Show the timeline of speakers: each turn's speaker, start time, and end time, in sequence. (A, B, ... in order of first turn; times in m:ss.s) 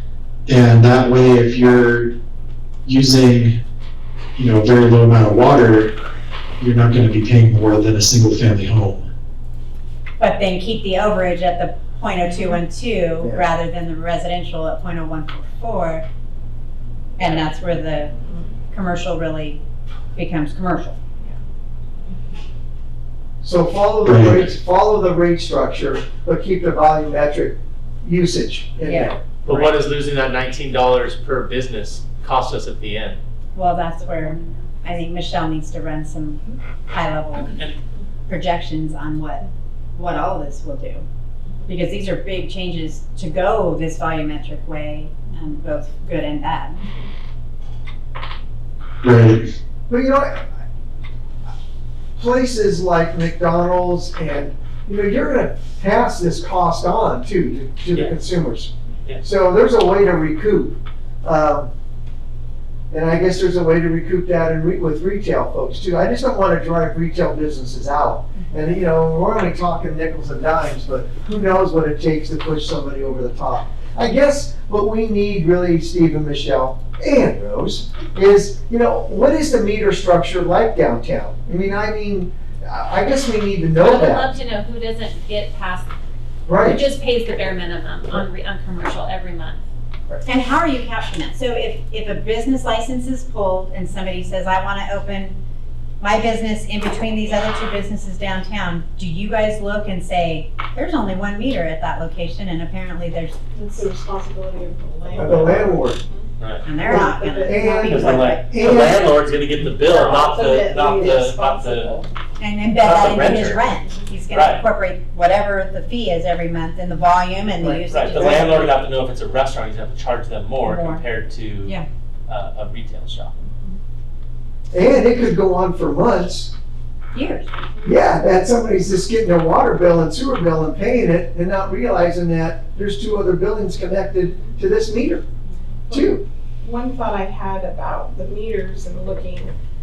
0:00.5-0:02.1 A
0:02.9-0:03.6 A
0:04.4-0:06.0 A
0:06.6-0:09.1 A
0:10.2-0:16.1 B
0:13.2-0:13.5 C
0:17.2-0:18.1 B
0:18.3-0:18.5 D
0:18.7-0:19.6 B
0:20.2-0:21.0 B
0:23.4-0:29.2 C
0:24.1-0:24.4 A
0:28.8-0:29.7 B
0:29.4-0:33.2 E
0:33.6-0:37.6 B
0:37.4-0:37.8 E
0:38.3-0:41.0 B
0:41.7-0:46.8 B
0:49.0-0:49.4 A
0:49.9-0:50.5 C
0:52.2-0:58.7 C
0:59.2-1:01.7 C
1:02.9-1:24.3 C
1:23.8-1:25.9 F
1:26.5-1:26.8 C
1:26.6-1:29.6 F
1:30.2-1:35.4 B
1:36.0-1:43.4 B
1:43.5-1:46.3 D
1:45.2-1:46.0 C
1:46.4-1:46.6 E
1:46.6-1:48.5 B
1:46.8-1:48.1 D
1:46.8-1:49.1 C
1:47.9-1:52.0 E
1:49.8-1:52.1 D
1:52.4-1:58.8 B
1:52.8-1:53.6 E
1:54.3-1:54.6 E
1:57.6-1:58.4 C
1:57.9-2:03.4 E
2:00.6-2:01.0 B
2:03.4-2:03.8 D
2:04.7-2:06.5 C
2:07.1-2:07.5 B
2:07.8-2:15.2 C
2:15.9-2:19.6 D
2:15.9-2:16.2 C